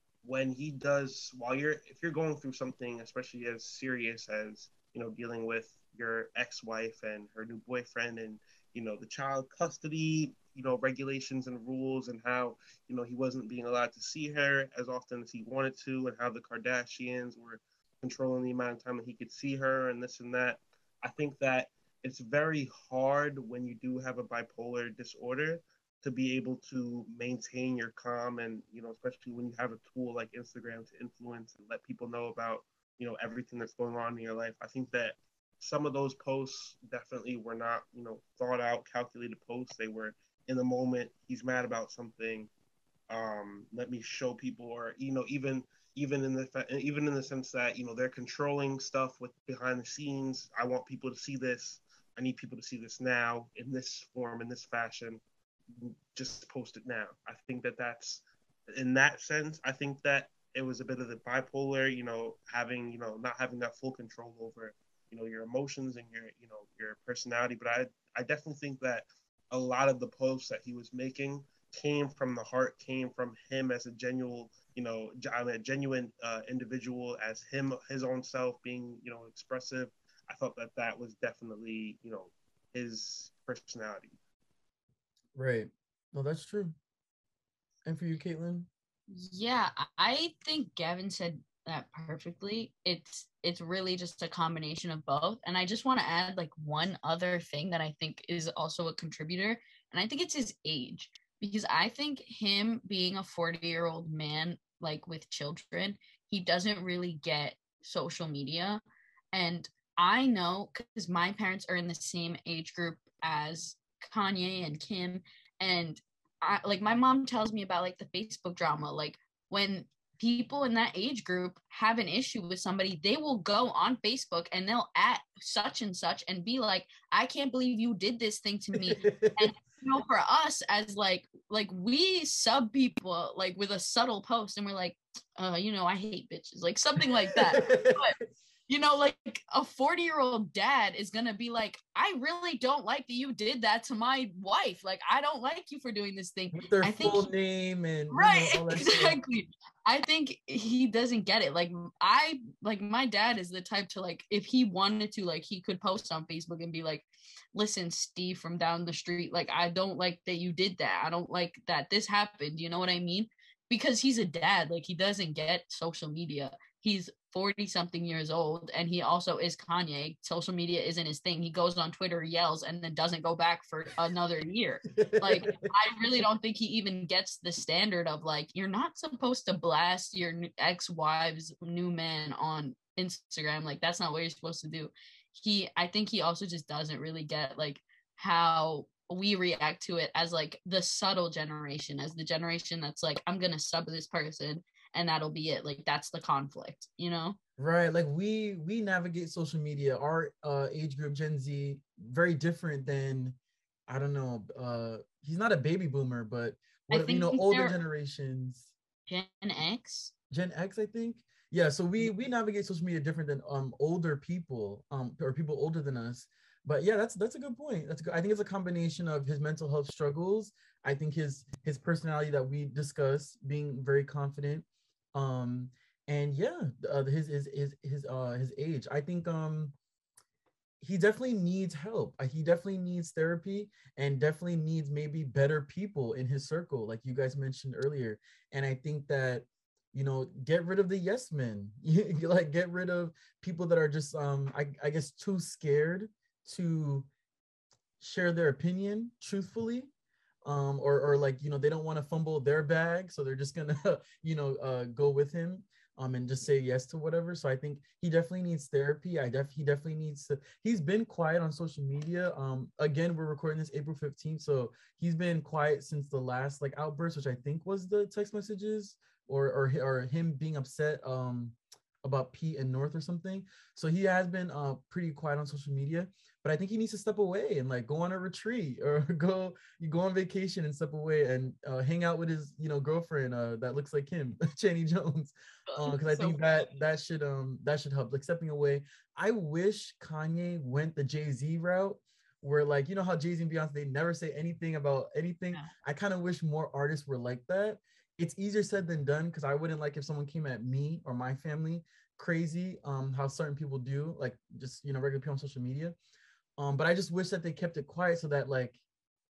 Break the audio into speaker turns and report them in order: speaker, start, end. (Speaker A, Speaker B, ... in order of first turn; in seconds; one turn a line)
Speaker A: 0.2-42.5
Speaker A: 43.1-55.2
Speaker A: 55.8-84.2
Speaker B: 85.3-86.8
Speaker B: 87.9-88.7
Speaker C: 89.1-108.8
Speaker C: 109.3-138.2
Speaker B: 128.8-129.5
Speaker B: 137.2-138.0
Speaker C: 138.7-147.3
Speaker B: 146.5-149.2
Speaker C: 148.1-197.4
Speaker B: 174.9-175.7
Speaker B: 197.6-203.4
Speaker B: 203.9-208.7
Speaker C: 206.9-207.8
Speaker C: 209.1-210.1
Speaker B: 210.3-229.8
Speaker B: 230.8-247.1
Speaker B: 248.0-249.9
Speaker B: 250.4-306.0
Speaker C: 285.7-286.7
Speaker B: 306.6-308.8